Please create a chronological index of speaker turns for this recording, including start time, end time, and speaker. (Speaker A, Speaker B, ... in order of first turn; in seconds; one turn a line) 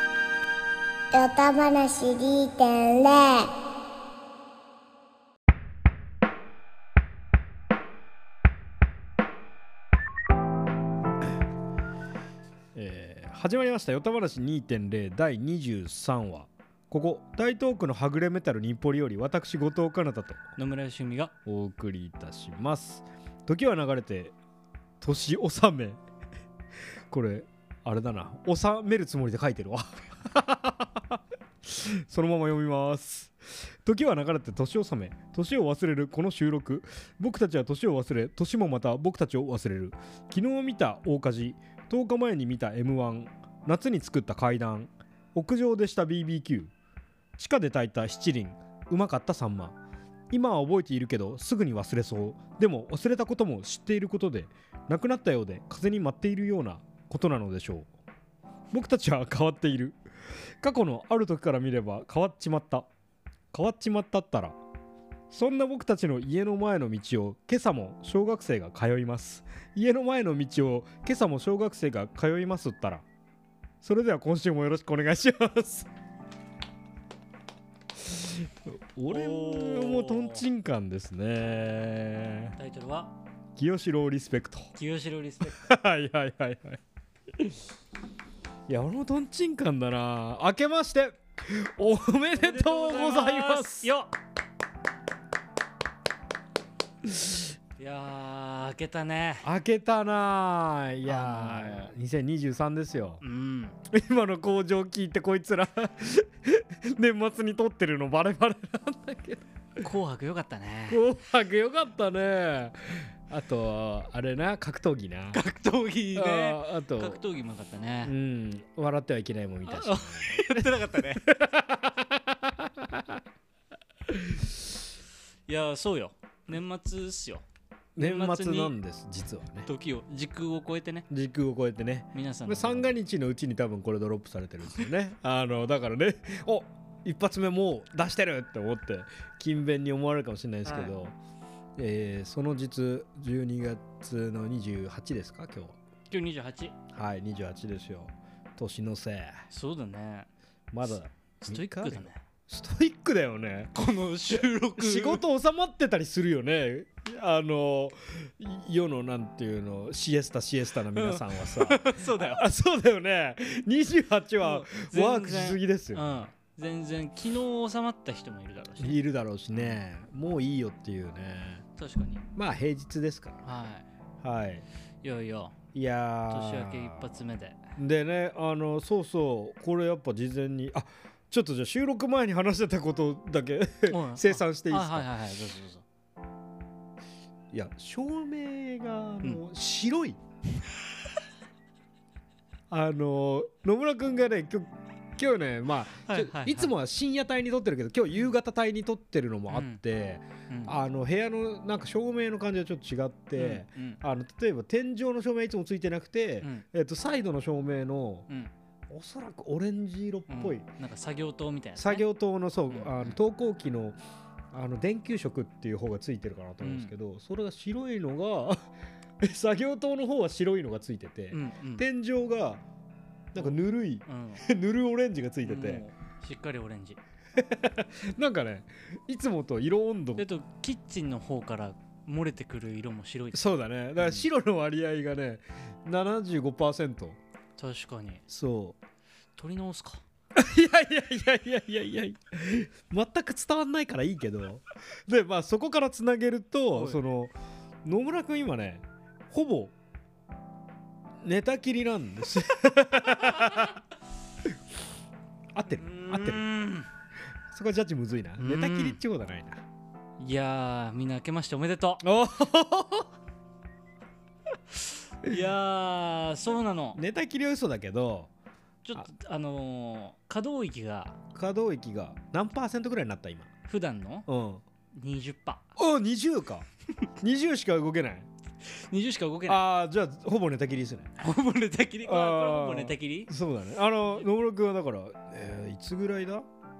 Speaker A: 1.1-3.5
Speaker B: 12.7-20.4
Speaker C: 20.6-21.3
Speaker B: 21.4-24.3
Speaker B: 25.0-26.0
Speaker B: 27.1-46.7
Speaker B: 47.4-49.8
Speaker B: 50.3-57.9
Speaker B: 58.7-60.0
Speaker B: 60.6-62.9
Speaker B: 63.5-64.6
Speaker B: 65.3-73.0
Speaker B: 73.8-75.9
Speaker B: 78.0-82.5
Speaker C: 79.1-80.5
Speaker C: 82.6-83.2
Speaker B: 83.5-84.7
Speaker C: 84.7-85.8
Speaker B: 85.5-86.8
Speaker B: 88.7-93.9
Speaker C: 92.3-94.1
Speaker B: 97.0-97.4
Speaker C: 97.8-99.5
Speaker B: 99.4-103.2
Speaker C: 101.0-101.8
Speaker C: 103.2-103.8
Speaker B: 103.9-109.5
Speaker C: 109.8-111.0
Speaker B: 110.9-115.4
Speaker C: 115.3-118.1
Speaker B: 116.1-117.2
Speaker B: 118.0-123.2
Speaker C: 119.7-121.2
Speaker B: 124.1-124.5
Speaker C: 125.5-127.5
Speaker B: 128.0-129.7
Speaker C: 128.0-128.7
Speaker C: 129.6-131.1
Speaker B: 131.1-141.2
Speaker C: 132.1-132.9
Speaker C: 140.6-140.9
Speaker B: 141.8-145.8
Speaker C: 146.1-146.8
Speaker B: 146.9-149.4
Speaker C: 149.5-150.3
Speaker B: 150.7-153.7
Speaker C: 150.8-152.2
Speaker C: 153.7-155.2
Speaker B: 154.3-166.0
Speaker C: 160.9-162.4
Speaker C: 164.4-169.0
Speaker B: 168.8-171.6
Speaker C: 171.8-172.3
Speaker B: 172.3-173.4
Speaker C: 173.4-173.9
Speaker B: 174.2-174.7
Speaker C: 175.0-175.5
Speaker B: 175.7-177.2
Speaker C: 176.3-177.7
Speaker B: 177.8-185.1
Speaker C: 183.9-185.8
Speaker B: 187.5-190.2
Speaker B: 192.7-208.3
Speaker C: 196.1-196.7
Speaker C: 199.5-199.8
Speaker C: 200.5-200.8
Speaker C: 203.3-204.0
Speaker B: 208.9-210.7
Speaker C: 210.3-212.0
Speaker B: 211.8-214.0
Speaker C: 212.7-213.2
Speaker B: 214.5-218.7
Speaker C: 216.6-216.9
Speaker B: 219.2-222.6
Speaker C: 221.3-221.9
Speaker B: 223.3-225.8
Speaker C: 223.4-224.4
Speaker C: 225.4-227.0
Speaker B: 227.3-230.2
Speaker C: 230.2-234.2
Speaker B: 233.3-237.2
Speaker C: 237.6-238.2
Speaker B: 238.3-238.8
Speaker C: 239.4-240.0
Speaker B: 240.3-249.7
Speaker C: 246.7-247.0
Speaker B: 251.2-253.8
Speaker B: 255.5-256.4
Speaker C: 255.7-256.9
Speaker B: 257.5-259.6
Speaker C: 258.4-259.0
Speaker C: 260.2-262.1
Speaker B: 262.0-263.1
Speaker C: 265.2-267.0
Speaker B: 266.9-268.3
Speaker C: 268.8-271.2
Speaker B: 271.3-273.5
Speaker C: 273.7-274.3
Speaker B: 274.3-274.6
Speaker C: 274.9-275.7
Speaker B: 275.8-276.6
Speaker B: 277.2-278.3
Speaker C: 278.6-279.6
Speaker B: 279.5-281.1
Speaker C: 281.2-283.3
Speaker B: 282.0-286.5